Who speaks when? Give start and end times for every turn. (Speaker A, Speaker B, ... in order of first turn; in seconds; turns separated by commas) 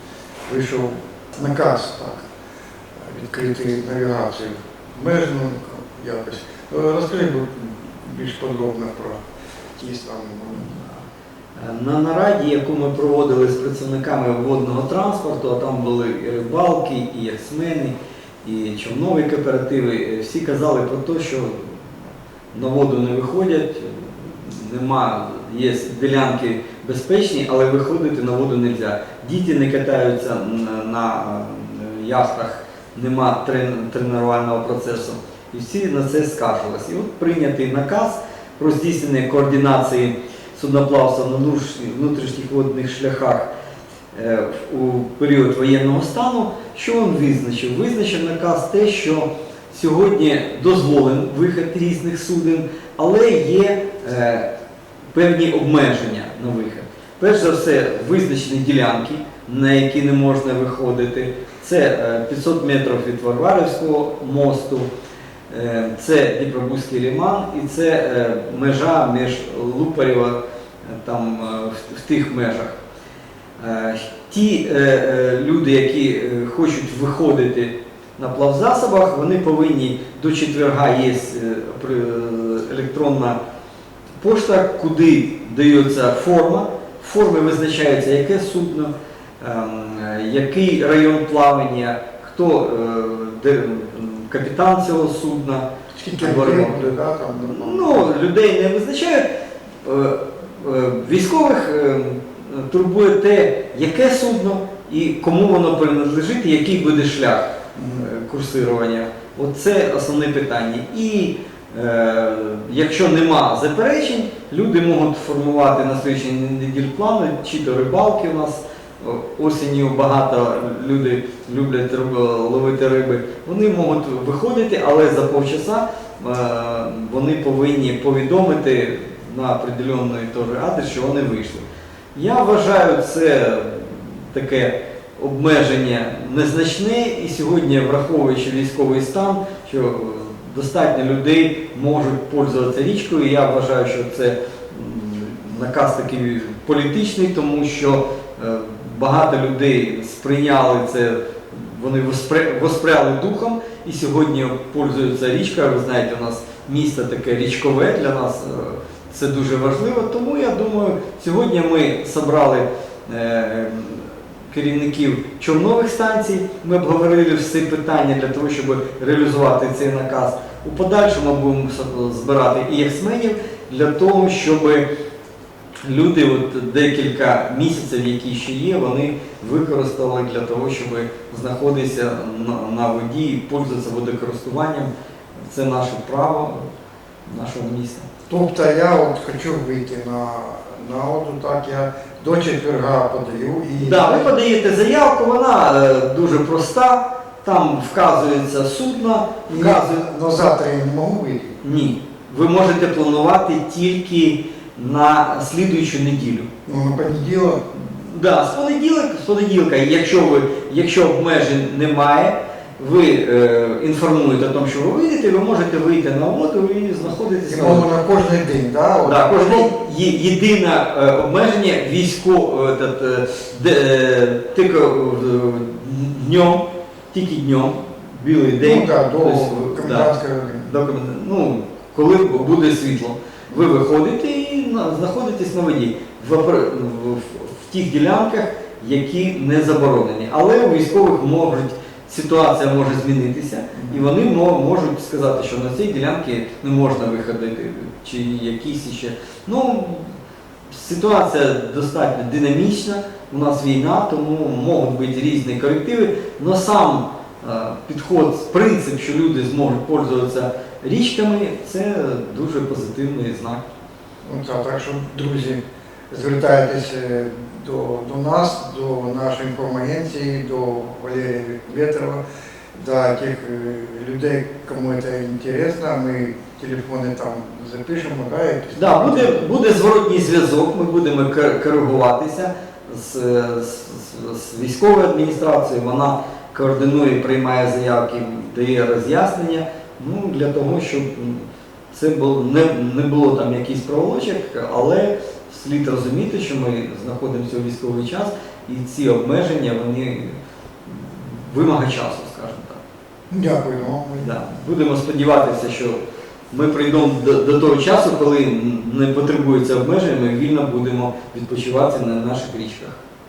Speaker A: 0.5-2.2, Speaker A: 3.0-9.2, Speaker A: 9.8-10.8, Speaker B: 10.5-10.9, Speaker B: 11.6-21.9, Speaker B: 22.5-43.5, Speaker B: 44.1-54.5, Speaker B: 55.1-64.9, Speaker B: 65.5-72.8, Speaker B: 73.6-83.4, Speaker B: 84.2-96.8, Speaker A: 95.9-98.1, Speaker B: 97.4-99.2, Speaker B: 99.8-131.6, Speaker A: 107.7-108.0, Speaker B: 132.1-174.8, Speaker B: 175.8-184.9, Speaker B: 185.5-186.6, Speaker B: 187.3-188.1, Speaker A: 188.3-194.3, Speaker B: 193.8-200.1, Speaker A: 199.5-201.6, Speaker B: 201.6-206.5, Speaker A: 206.7-207.6, Speaker B: 207.7-217.9, Speaker A: 217.5-219.7, Speaker B: 219.0-250.1, Speaker A: 228.6-230.7, Speaker A: 243.7-244.0, Speaker B: 250.7-263.6, Speaker A: 264.2-272.2, Speaker A: 272.7-279.5, Speaker B: 278.8-302.8, Speaker A: 303.3-304.3, Speaker B: 304.2-306.0, Speaker B: 306.5-313.0